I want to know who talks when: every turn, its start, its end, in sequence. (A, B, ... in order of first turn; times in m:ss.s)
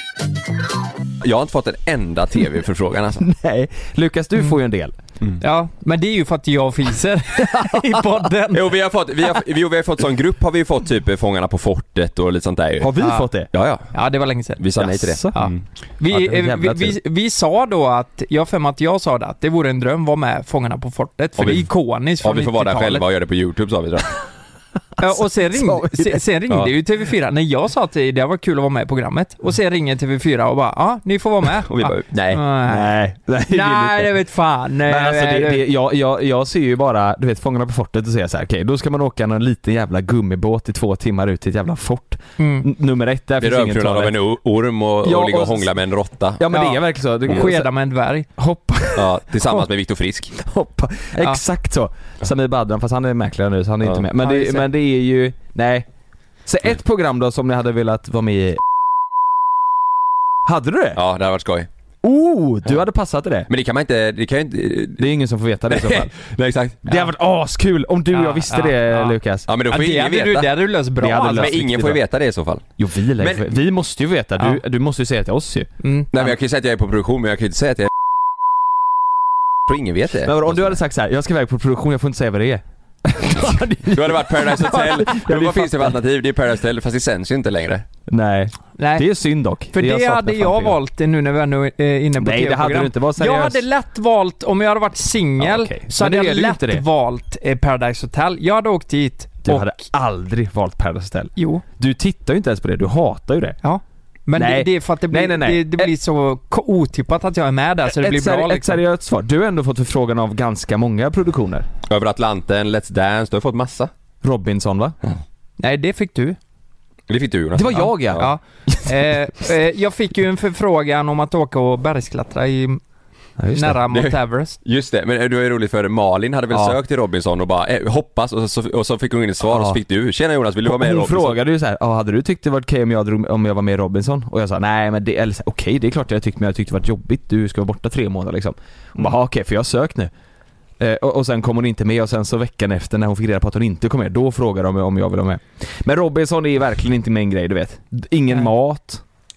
0:01.2-0:03.3 A
0:03.2-0:04.9 B
0:05.4-0:08.7 C
0:07.5-0:08.1 B
0:08.5-0:12.9 A
0:12.8-0:13.5 B
0:13.0-0:13.2 C
0:13.5-0:13.9 A
0:13.9-0:14.6 C
0:14.6-0:15.6 A
0:14.8-0:15.5 B
0:15.3-0:23.0 C
0:16.1-0:17.0 B
0:21.4-0:24.2 A
0:25.0-0:33.0 C
0:25.0-0:26.2 B
0:31.5-0:32.4 A
0:32.1-0:34.2 B
0:33.5-0:35.7 C
0:34.9-0:44.2 B
0:42.4-0:42.7 C
0:43.4-0:46.5 A
0:45.0-0:45.7 B
0:46.4-0:47.7 B
0:46.5-0:48.3 C
0:48.4-0:49.2 B
0:49.0-0:50.3 A
0:50.4-0:55.9 B
0:53.8-0:54.1 A
0:54.2-0:54.7 C
0:56.5-0:58.6 B
1:00.4-1:01.0 B
1:01.0-1:01.7 A
1:02.0-1:03.5 B
1:03.5-1:05.1 A
1:05.0-1:06.1 B
1:05.7-1:06.9 A
1:06.8-1:09.5 B
1:08.1-1:11.6 C
1:09.5-1:10.5 A
1:11.0-1:12.0 B
1:11.1-1:12.6 A
1:12.8-1:16.3 B
1:13.2-1:13.5 A
1:15.8-1:16.1 C
1:16.1-1:17.9 A
1:19.7-1:20.8 A
1:20.2-1:26.0 B
1:23.9-1:27.8 A
1:28.1-1:30.8 B
1:28.8-1:29.1 C
1:29.7-1:39.7 C
1:32.2-1:33.6 B
1:35.4-1:36.8 B
1:39.4-1:43.6 B
1:41.4-1:41.6 C
1:43.6-1:48.8 C
1:44.3-1:45.9 B
1:47.9-1:51.7 B
1:51.9-1:53.9 A
1:54.2-1:55.0 B
1:55.6-1:56.4 C
1:57.1-1:58.3 A
1:57.6-1:59.3 B
1:57.7-2:02.8 C
2:03.4-2:03.8 B
2:03.5-2:04.6 C
2:03.9-2:11.4 A
2:06.5-2:06.8 B
2:09.4-2:09.8 B
2:10.6-2:20.1 B
2:20.8-2:29.0 B